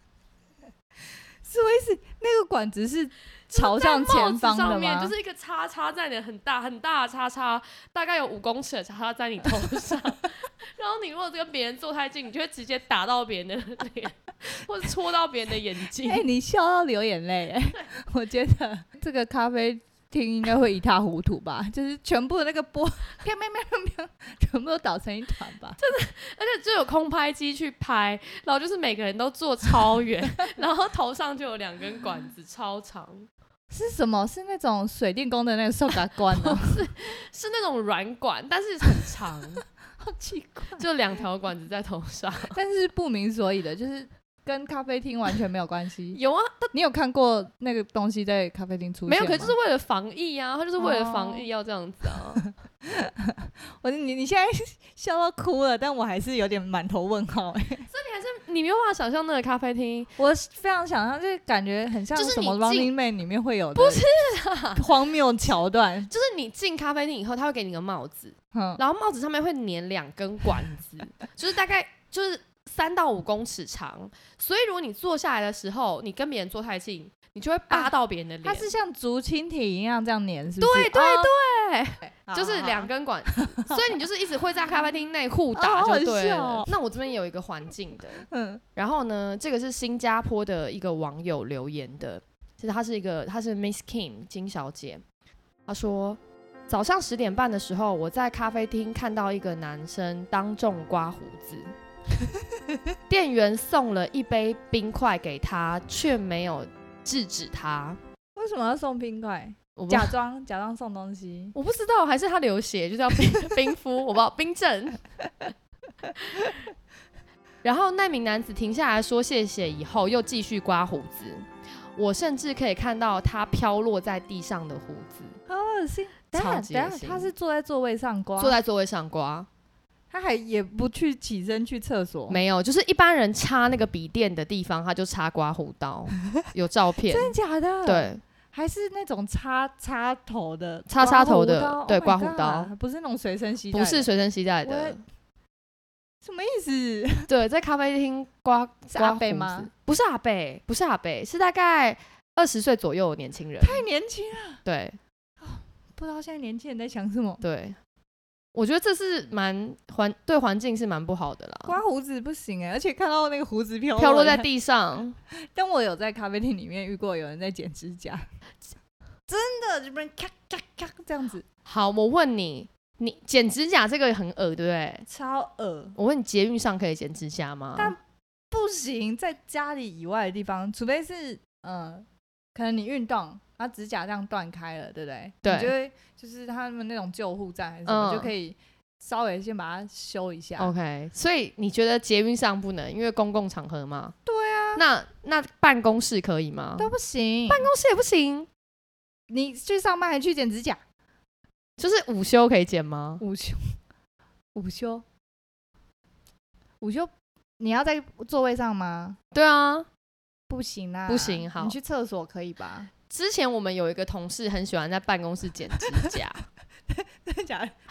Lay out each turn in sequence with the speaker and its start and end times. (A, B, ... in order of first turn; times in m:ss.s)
0:01.4-0:05.1 A
0:03.5-0:16.2 B
0:16.0-0:25.8 A
0:25.8-0:33.3 B
0:33.7-0:36.8 A
0:36.3-0:39.6 B
0:40.0-0:40.8 A
0:40.8-0:42.6 B
0:42.5-0:46.2 A
0:46.1-0:46.7 B
0:46.7-0:49.5 A
0:49.1-0:52.4 B
0:50.8-0:51.4 A
0:52.8-0:57.9 A
0:57.9-1:00.1 B
1:00.2-1:04.0 A
1:02.1-1:02.9 B
1:03.7-1:04.9 B
1:04.8-1:06.1 A
1:06.1-1:18.7 B
1:08.5-1:08.8 A
1:18.4-1:21.3 A
1:20.6-1:35.0 B
1:22.0-1:23.8 A
1:25.5-1:26.7 A
1:28.3-1:28.6 A
1:35.6-1:41.7 B
1:43.1-1:48.0 B
1:48.4-1:51.5 A
1:49.8-1:50.1 B
1:51.5-1:55.0 B
1:57.6-2:05.4 B
2:05.5-2:08.6 A
2:06.3-2:07.3 B
2:08.4-2:09.5 B
2:10.1-2:12.4 A
2:12.3-2:18.2 B
2:17.1-2:24.1 A
2:20.9-2:22.7 B
2:23.7-2:25.0 B
2:24.6-2:25.0 A
2:26.2-2:27.3 A
2:27.3-2:33.8 B
2:28.9-2:29.7 A
2:33.6-2:34.6 A
2:34.6-2:35.0 B
2:35.4-2:37.4 A
2:37.4-2:37.8 B
2:38.5-2:41.8 B
2:41.6-2:44.5 A
2:44.0-2:45.2 B
2:45.5-2:48.2 A
2:49.3-2:51.4 A
2:51.6-2:55.1 B
2:55.1-2:56.0 A
2:56.0-2:57.9 B
2:58.5-3:10.7 A
3:05.4-3:05.7 B
3:07.8-3:08.3 B
3:10.6-3:14.2 B
3:14.2-3:14.8 A
3:14.7-3:16.9 B
3:16.8-3:17.7 A
3:17.5-3:18.5 B
3:19.3-3:20.8 A
3:21.8-3:23.2 B
3:23.2-3:23.8 A
3:24.5-3:25.0 A
3:26.8-3:29.2 A
3:29.3-3:29.9 B
3:30.5-3:32.9 A
3:31.1-3:31.8 B
3:33.1-3:36.4 B
3:36.9-3:37.7 A